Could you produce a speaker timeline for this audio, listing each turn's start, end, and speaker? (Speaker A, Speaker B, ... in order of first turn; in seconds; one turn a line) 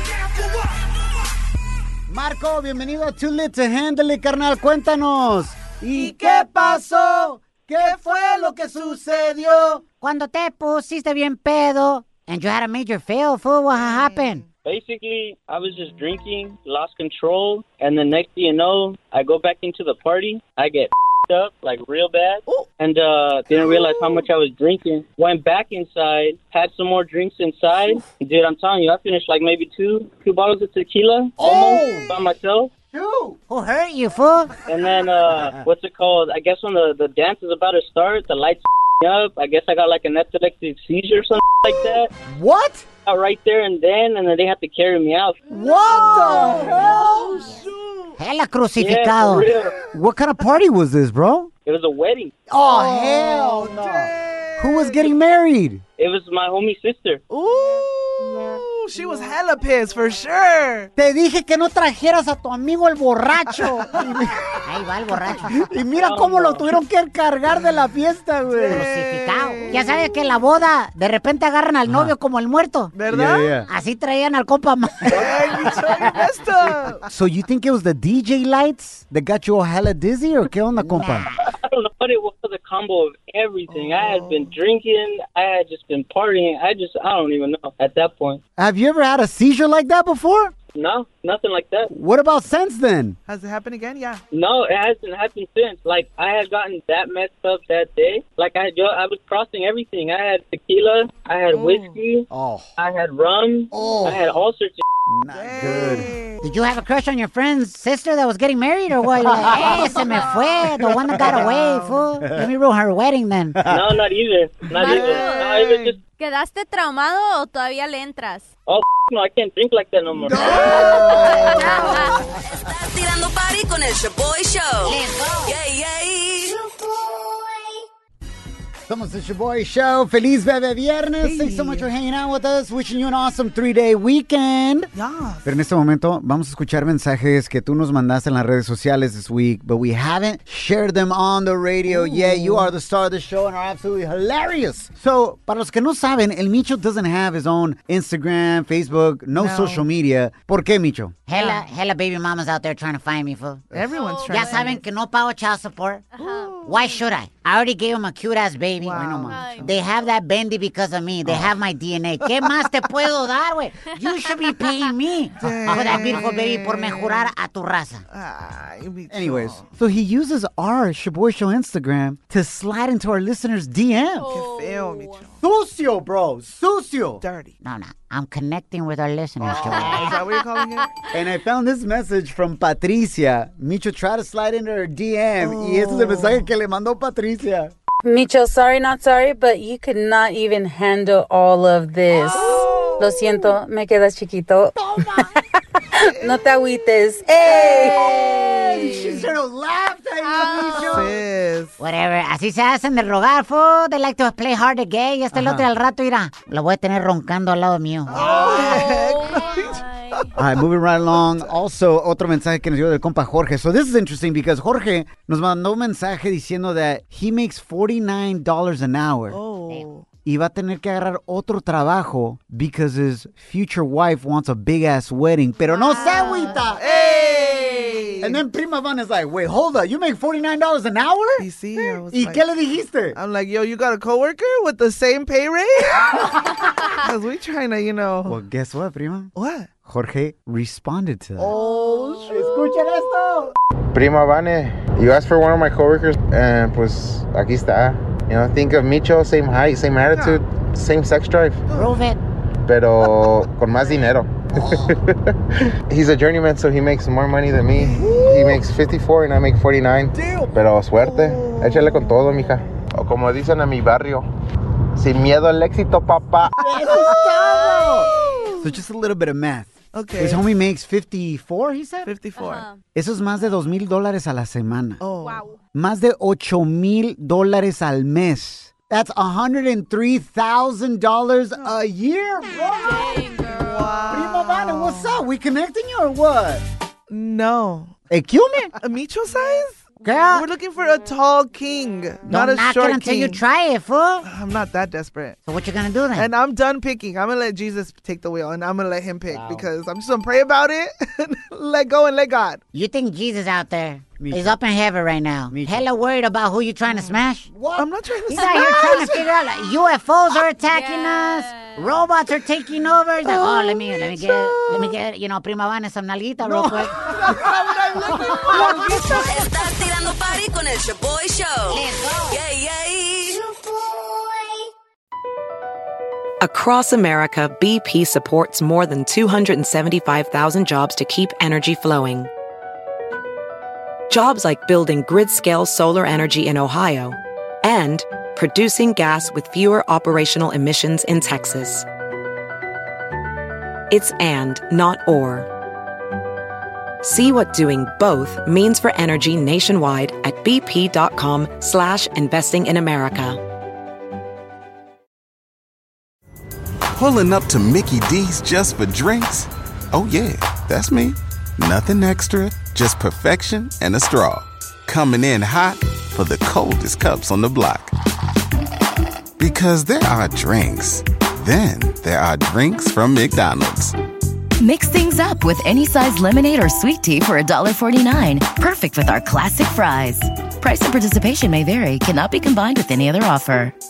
Speaker A: 2.1-9.8
Speaker B: 6.0-6.8
Speaker B: 10.0-14.4
Speaker C: 13.7-14.5
Speaker D: 14.7-32.7
Speaker C: 23.6-24.3
Speaker A: 31.4-32.2
Speaker A: 32.9-33.4
Speaker B: 33.5-34.5
Speaker D: 34.6-42.1
Speaker A: 35.3-35.6
Speaker A: 41.9-42.9
Speaker D: 43.1-45.4
Speaker A: 45.5-47.5
Speaker C: 45.5-48.1
Speaker B: 46.3-46.7
Speaker B: 48.2-49.5
Speaker D: 48.8-49.8
Speaker A: 49.9-51.5
Speaker D: 51.7-52.3
Speaker A: 52.5-55.8
Speaker C: 52.6-55.1
Speaker D: 56.0-57.2
Speaker C: 57.3-60.9
Speaker A: 61.0-61.4
Speaker B: 61.3-63.9
Speaker C: 63.5-64.6
Speaker A: 63.9-64.4
Speaker B: 64.7-65.5
Speaker A: 65.4-68.9
Speaker D: 65.9-66.7
Speaker C: 68.5-70.4
Speaker B: 68.7-72.9
Speaker A: 71.9-72.1
Speaker C: 72.9-73.6
Speaker A: 73.1-73.7
Speaker B: 73.7-75.8
Speaker C: 75.1-77.1
Speaker A: 77.1-81.3
Speaker B: 80.8-81.4
Speaker D: 81.5-88.4
Speaker C: 83.7-84.5
Speaker A: 88.6-90.5
Speaker D: 90.7-91.9
Speaker A: 91.9-93.2
Speaker C: 93.3-94.2
Speaker D: 94.3-104.8
Speaker C: 101.5-102.0
Speaker A: 102.3-102.7
Speaker A: 103.7-104.3
Speaker A: 105.1-106.1
Speaker C: 105.3-106.5
Speaker B: 105.8-113.7
Speaker A: 109.3-110.0
Speaker C: 109.8-110.3
Speaker A: 111.1-111.5
Speaker C: 111.2-112.1
Speaker A: 112.2-112.5
Speaker A: 113.6-113.9
Speaker D: 113.7-116.0
Speaker E: 114.8-115.5
Speaker C: 114.8-116.0
Speaker E: 116.2-118.5
Speaker D: 118.7-120.4
Speaker A: 120.3-122.2
Speaker C: 120.4-122.3
Speaker E: 120.5-122.2
Speaker F: 122.6-126.6
Speaker B: 124.8-125.6
Speaker A: 128.9-134.9
Speaker C: 131.2-131.9
Speaker C: 134.9-135.6
Speaker A: 135.4-151.4
Speaker C: 141.9-142.7
Speaker C: 149.3-149.9
Speaker B: 151.3-153.7
Speaker C: 151.4-151.6
Speaker C: 153.7-154.8
Speaker E: 153.9-154.8
Speaker B: 154.3-168.0
Speaker E: 156.2-157.0
Speaker C: 156.2-156.8
Speaker C: 158.8-159.7
Speaker E: 159.3-159.9
Speaker A: 161.3-161.5
Speaker C: 162.2-162.7
Speaker C: 165.4-167.3
Speaker A: 165.7-166.2
Speaker C: 168.1-169.7
Speaker A: 169.1-174.4
Speaker E: 174.2-175.2
Speaker C: 174.2-175.4
Speaker A: 175.4-177.2
Speaker C: 177.2-177.6
Speaker B: 177.6-180.2
Speaker C: 179.4-181.0
Speaker E: 179.6-181.1
Speaker A: 179.7-180.0
Speaker A: 181.1-187.7
Speaker C: 185.4-186.5
Speaker G: 188.1-194.8
Speaker A: 192.3-193.4
Speaker A: 194.8-195.3
Speaker G: 196.0-198.8
Speaker C: 196.0-196.4
Speaker A: 197.4-201.2
Speaker C: 198.9-199.2
Speaker E: 200.2-201.1
Speaker C: 200.8-201.8
Speaker B: 201.8-208.3
Speaker A: 205.3-205.7
Speaker C: 208.1-210.4
Speaker E: 208.1-210.3
Speaker A: 210.4-219.4
Speaker C: 211.1-211.6
Speaker C: 219.3-220.1
Speaker A: 220.2-226.9
Speaker E: 225.7-226.6
Speaker B: 225.9-226.5
Speaker C: 226.8-228.4
Speaker A: 228.2-233.2
Speaker C: 231.4-232.5
Speaker C: 233.1-238.4
Speaker A: 236.2-236.5
Speaker A: 238.3-239.3
Speaker C: 239.3-239.7
Speaker A: 239.9-241.6
Speaker C: 241.4-242.6
Speaker A: 242.3-243.5
Speaker H: 243.9-251.7
Speaker C: 250.0-250.5
Speaker C: 251.7-252.1
Speaker B: 251.7-252.2
Speaker H: 252.7-255.0
Speaker C: 253.7-254.1
Speaker H: 255.9-264.3
Speaker C: 257.8-258.7
Speaker C: 260.1-262.9
Speaker H: 265.0-266.6
Speaker C: 266.5-268.8
Speaker A: 266.6-272.1
Speaker E: 267.4-268.5
Speaker C: 269.9-270.5
Speaker C: 272.0-272.7
Speaker E: 272.4-272.8
Speaker A: 272.9-275.0
Speaker C: 275.0-275.5
Speaker E: 275.2-275.6
Speaker A: 275.7-283.1
Speaker E: 282.8-283.8
Speaker C: 282.9-285.2
Speaker A: 284.1-286.6
Speaker C: 287.1-287.9
Speaker A: 288.1-288.6
Speaker C: 288.8-293.4
Speaker B: 290.0-290.5
Speaker B: 292.3-294.3
Speaker C: 294.2-295.4
Speaker B: 295.5-296.3
Speaker C: 296.2-302.6
Speaker A: 299.3-299.6
Speaker B: 302.7-307.5
Speaker A: 304.2-304.6
Speaker A: 305.5-305.9
Speaker C: 306.9-309.3
Speaker A: 307.5-309.0
Speaker B: 308.3-317.0
Speaker E: 310.8-311.3
Speaker A: 313.4-314.9
Speaker A: 316.4-319.5
Speaker C: 317.0-319.1
Speaker B: 318.3-319.0
Speaker F: 319.0-323.4
Speaker B: 321.7-322.4
Speaker I: 326.4-332.3
Speaker I: 334.1-341.9
Speaker I: 343.9-345.5
Speaker I: 347.0-353.4
Speaker J: 357.0-367.9
Speaker J: 369.4-373.9
Speaker K: 374.6-383.7